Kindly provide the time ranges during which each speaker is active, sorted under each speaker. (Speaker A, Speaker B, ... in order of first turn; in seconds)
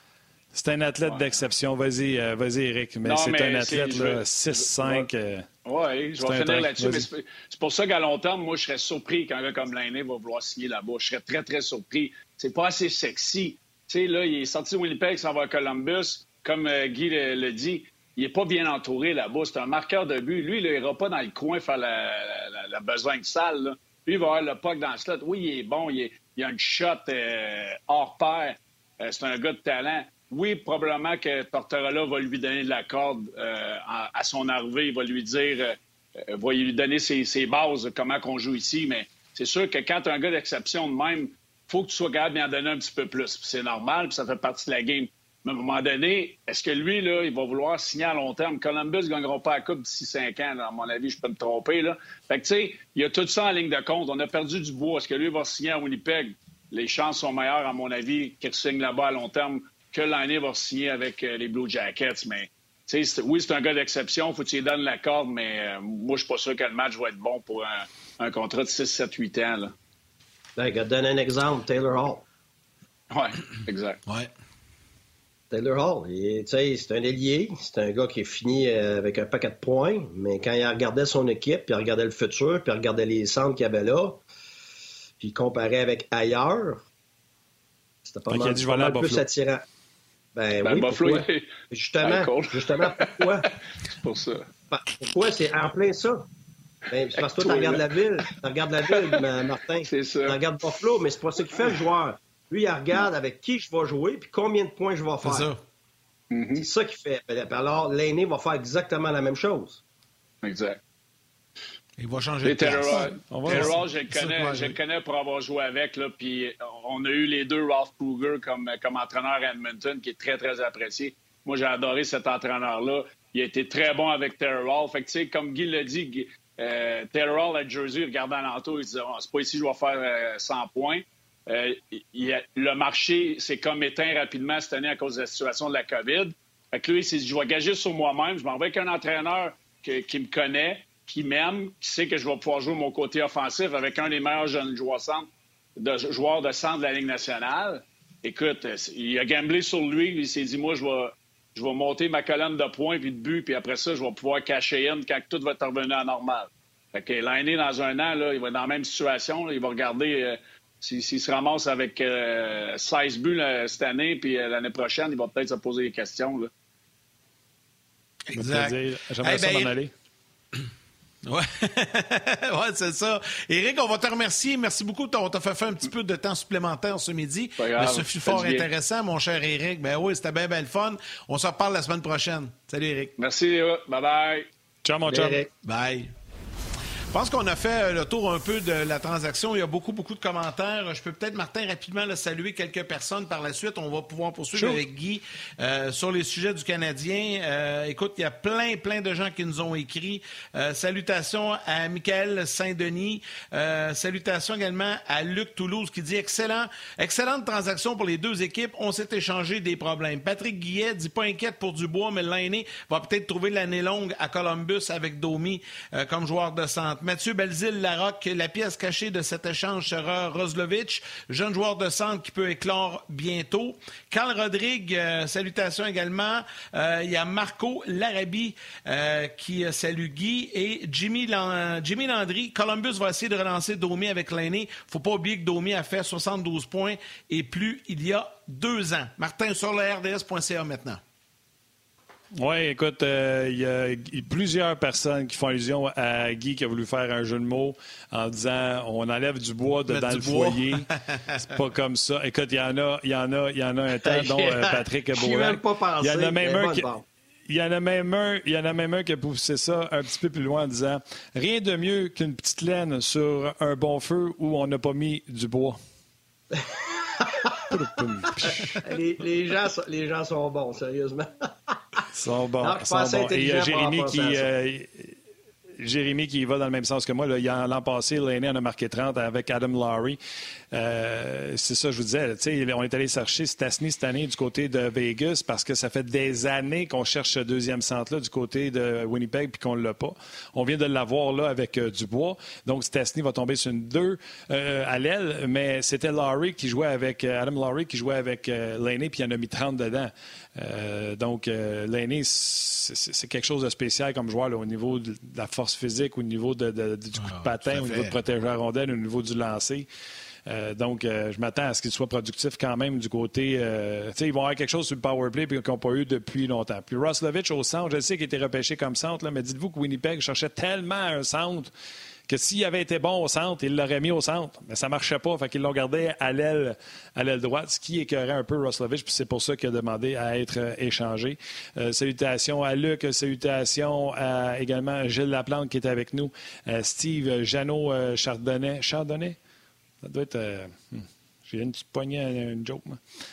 Speaker A: 0.5-5.5, 6.2-7.1, 88.3-89.2, 113.3-113.8, 168.3-169.9, 184.8-185.4, 194.6-194.8, 242.4-250.9, 251.4-256.9, 257.5-265.8, 267.7-268.8, 272.1-275.1, 275.8-280.2, 280.7-309.9, 310.5-321.7, 322.3-339.4, 340.0-343.0
Speaker B: 3.1-5.1, 5.7-69.7, 73.1-74.0, 90.6-91.5, 92.0-94.5, 97.1-98.0, 98.9-99.2, 99.8-100.4, 106.3-106.7, 110.4-110.8, 112.4-166.5, 177.6-178.7, 183.2-184.5
Speaker C: 70.6-72.2, 75.5-84.2, 85.2-86.8, 88.0-89.6, 90.3-93.5, 94.7-96.2, 96.9-105.5, 106.6-109.8, 185.1-185.5, 254.1-257.1, 266.5-267.5, 268.4-272.0, 272.6-274.5
Speaker D: 74.1-74.3, 105.2-105.6, 112.0-114.8, 168.3-169.7, 171.2-183.1, 185.6-186.1, 187.1-241.0, 249.9-251.4, 307.2-308.2